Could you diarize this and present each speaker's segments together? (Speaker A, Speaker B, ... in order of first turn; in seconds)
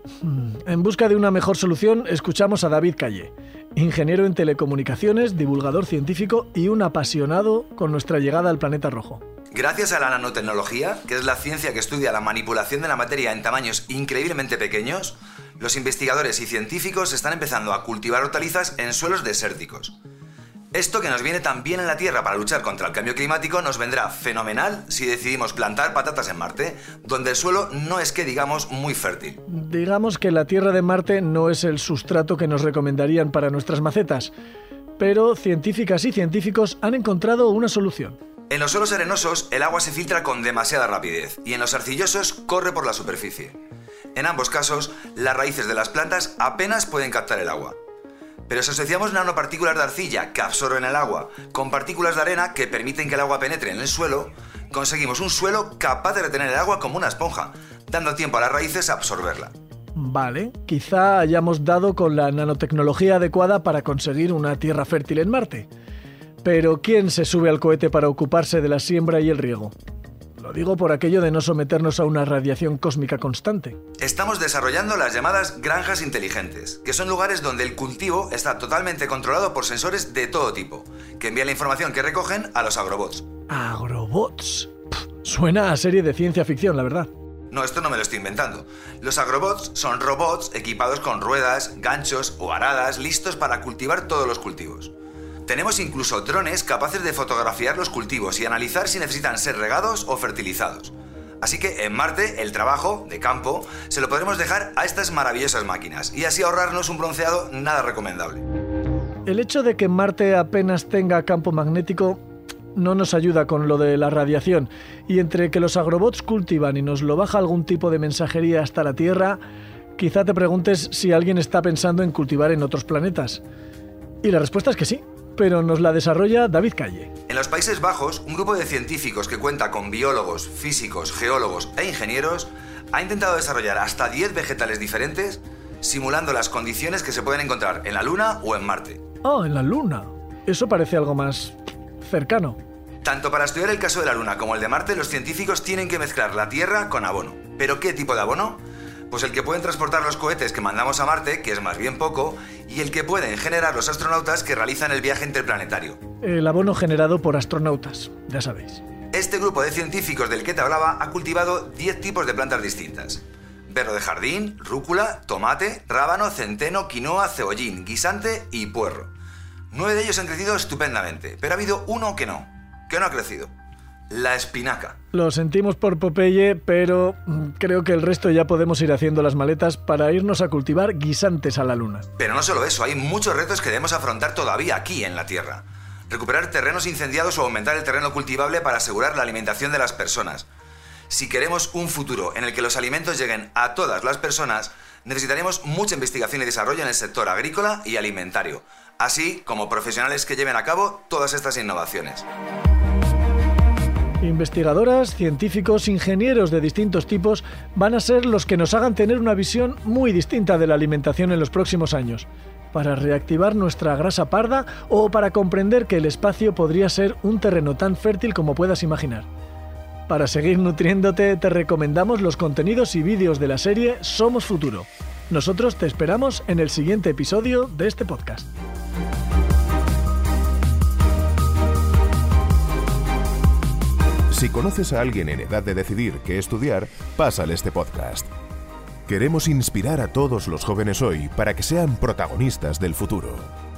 Speaker A: 0.2-9.2, 29.5-34.3, 35.0-38.1, 59.9-65.7, 66.4-69.7, 70.4-73.8, 83.5-87.1, 109.2-112.2, 112.7-119.4, 120.0-123.4, 124.2-127.1, 139.2-142.6, 156.2-158.8, 175.1-182.1, 204.2-219.3, 220.1-228.5
Speaker B: 9.5-19.9, 20.7-29.4, 38.5-43.5, 44.1-47.8, 48.5-59.5, 74.0-83.3, 87.5-94.9, 95.5-108.4, 127.3-139.0, 143.0-156.0, 159.1-169.1, 169.7-173.5, 174.1-175.0, 182.2-190.5, 191.1-202.2
Speaker C: 234.3-238.3, 239.1-243.5